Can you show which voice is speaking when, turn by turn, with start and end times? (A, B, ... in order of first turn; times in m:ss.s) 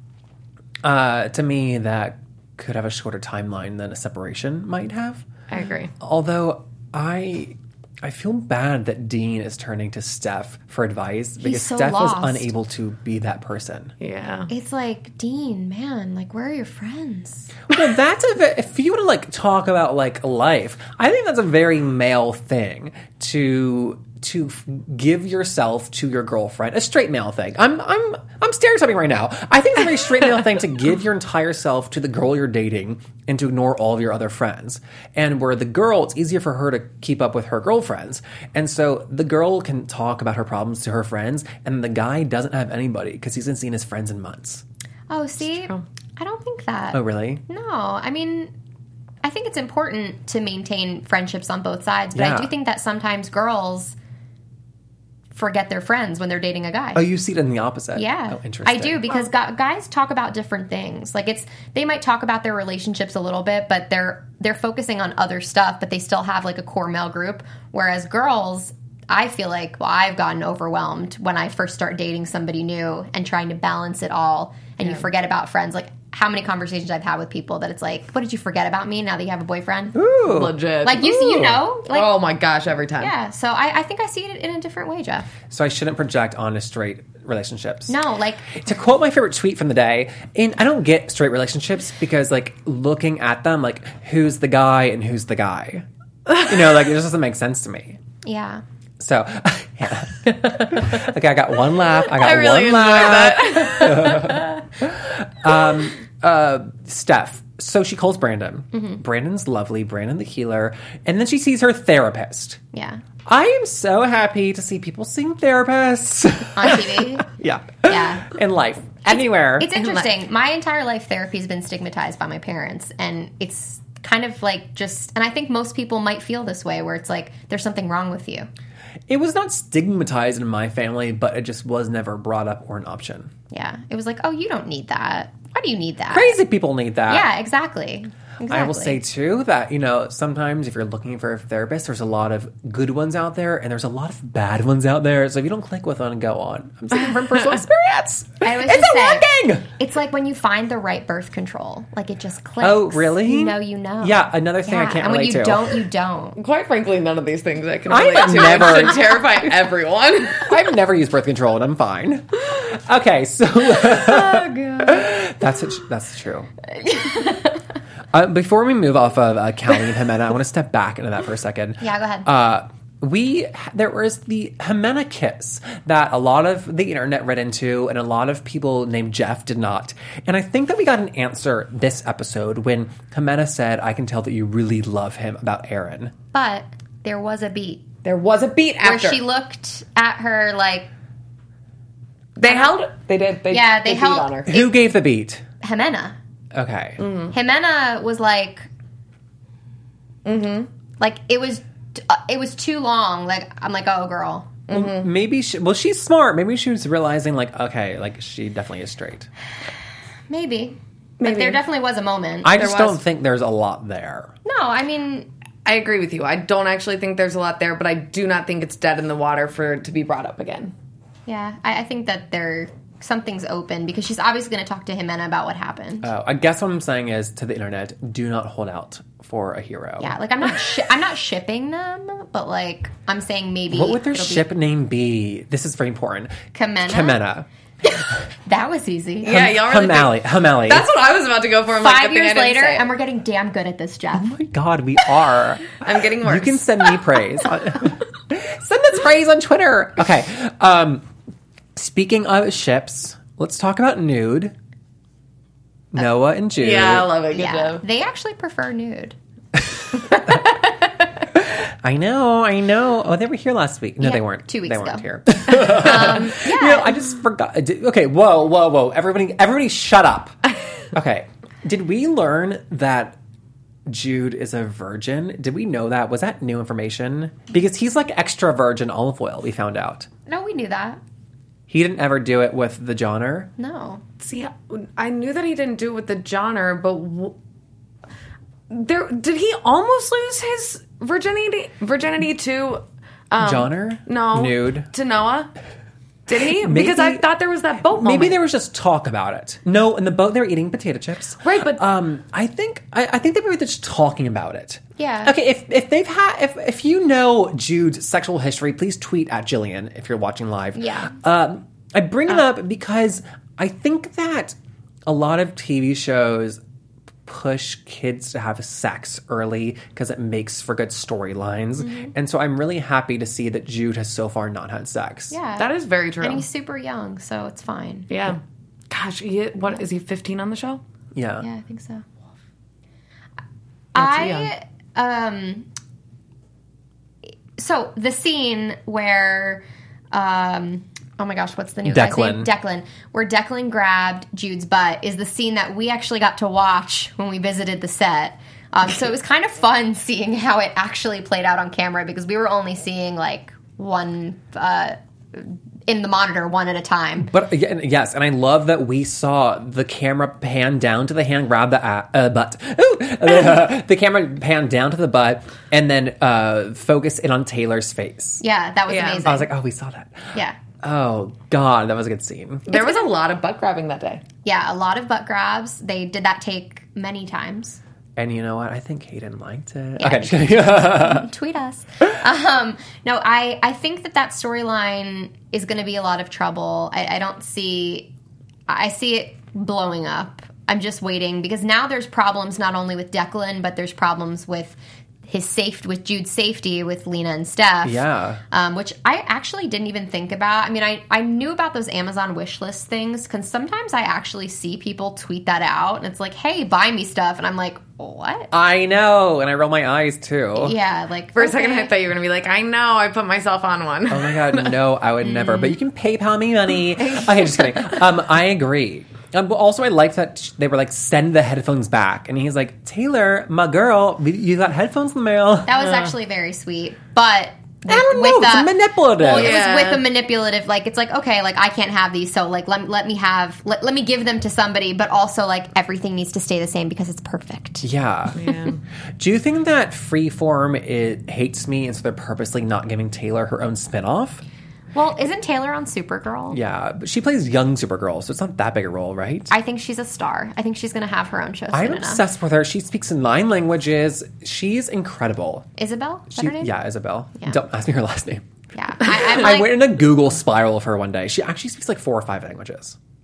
0:00.8-0:05.3 A
0:05.5-0:05.9 B
0:06.0-0:13.9 A
0:11.4-0:12.5 C
0:14.0-0:14.5 B
0:14.5-0:17.6 C
0:17.7-0:44.6 A
0:45.1-0:48.5 C
0:46.9-0:47.4 A
0:49.2-0:54.0 C
0:52.1-0:52.5 A
0:55.3-0:57.0 C
0:56.9-0:59.0 A
0:57.9-1:20.0 C
1:19.9-1:20.5 A
1:20.2-1:23.1 B
1:20.8-1:22.2 C
1:23.0-1:25.3 C
1:25.5-1:28.0 A
1:27.9-1:28.5 C
1:28.5-1:38.0 A
1:38.2-1:38.6 C
1:39.0-1:52.6 A
1:42.1-1:44.3 B
1:48.7-1:49.0 C
1:52.7-1:53.0 C
1:53.2-1:59.7 A
1:56.6-1:57.3 C
1:57.8-1:58.4 C
1:59.1-2:08.5 C
2:09.1-2:13.3 A
2:13.5-2:16.4 C
2:16.1-2:17.3 A
2:17.1-2:19.0 C
2:18.5-2:29.7 A
2:28.4-2:36.4 C
2:32.6-2:35.8 A
2:36.4-2:40.5 B
2:37.9-2:39.5 A
2:38.0-2:39.2 C
2:40.4-2:46.5 A
2:43.8-2:45.0 C
2:46.8-2:47.4 C
2:48.1-3:06.1 A
2:51.8-2:52.3 C
3:06.3-3:07.9 C
3:08.0-3:09.2 B
3:08.8-3:10.9 C
3:12.4-3:14.5 B
3:12.4-3:12.8 C
3:13.5-3:14.8 C
3:14.5-3:15.4 A
3:15.6-3:16.2 C
3:16.5-3:17.0 A
3:17.0-3:17.3 B
3:17.3-3:18.7 C
3:20.2-3:20.7 B
3:21.0-3:24.6 C
3:24.7-3:25.1 B
3:24.7-3:29.3 A
3:30.3-3:32.5 C
3:31.2-3:31.6 B
3:32.4-3:34.3 A
3:32.6-3:33.0 B
3:34.4-3:35.3 C
3:35.6-3:40.7 B
3:41.2-3:46.1 C
3:46.0-3:50.2 A
3:50.0-3:54.5 C
3:53.7-3:57.4 A
3:56.5-3:57.2 C
3:58.4-3:59.4 C
3:59.2-4:02.9 B
3:59.3-4:00.8 A
4:01.7-4:04.3 C
4:04.1-4:11.1 A
4:05.8-4:07.0 B
4:11.7-4:14.5 A
4:15.9-4:17.1 A
4:16.6-4:17.8 B
4:17.3-4:19.2 C
4:20.3-4:20.5 C
4:21.3-4:30.3 A
4:24.0-4:27.0 C
4:30.9-4:33.2 A
4:33.8-4:40.1 A
4:40.3-4:41.0 C
4:41.7-4:43.5 A
4:43.6-4:44.0 C
4:44.2-4:47.4 B
4:48.7-4:55.5 B
4:53.4-4:54.9 A
4:56.3-4:58.4 B
4:56.6-4:57.2 A
4:58.0-5:16.6 A
5:01.4-5:01.8 B
5:05.0-5:05.3 C
5:10.7-5:11.1 C
5:17.2-5:25.4 A
5:21.8-5:22.1 C
5:25.3-5:28.1 C
5:25.6-5:26.4 B
5:28.1-5:28.4 B
5:28.9-5:30.8 B
5:31.1-5:31.5 A
5:31.4-5:32.1 C
5:33.9-5:35.7 C
5:34.0-5:34.5 B
5:37.6-5:57.3 C
5:41.8-5:42.5 A
5:57.2-6:08.4 A
6:08.4-6:09.5 C
6:08.9-6:09.3 B
6:09.2-6:12.7 A
6:12.7-6:14.2 B
6:12.7-6:13.1 C
6:14.4-6:17.8 C
6:18.2-6:21.3 A
6:20.0-6:28.1 C
6:28.7-6:48.5 C
6:37.8-6:38.4 A
6:48.5-6:50.8 A
6:50.6-6:51.9 C
6:51.3-6:54.8 B
6:54.1-7:05.7 A
6:55.3-6:55.7 C
6:57.0-6:57.8 C
7:05.6-7:17.8 C
7:07.8-7:09.5 A
7:09.3-7:10.0 B
7:17.8-7:18.5 A
7:18.4-7:18.8 B
7:19.2-7:24.4 A
7:24.9-7:26.6 C
7:26.5-7:29.5 A
7:29.5-7:32.2 C
7:31.7-7:35.7 A
7:35.8-7:36.7 C
7:36.3-7:38.4 A
7:38.7-7:39.8 C
7:39.0-7:43.0 A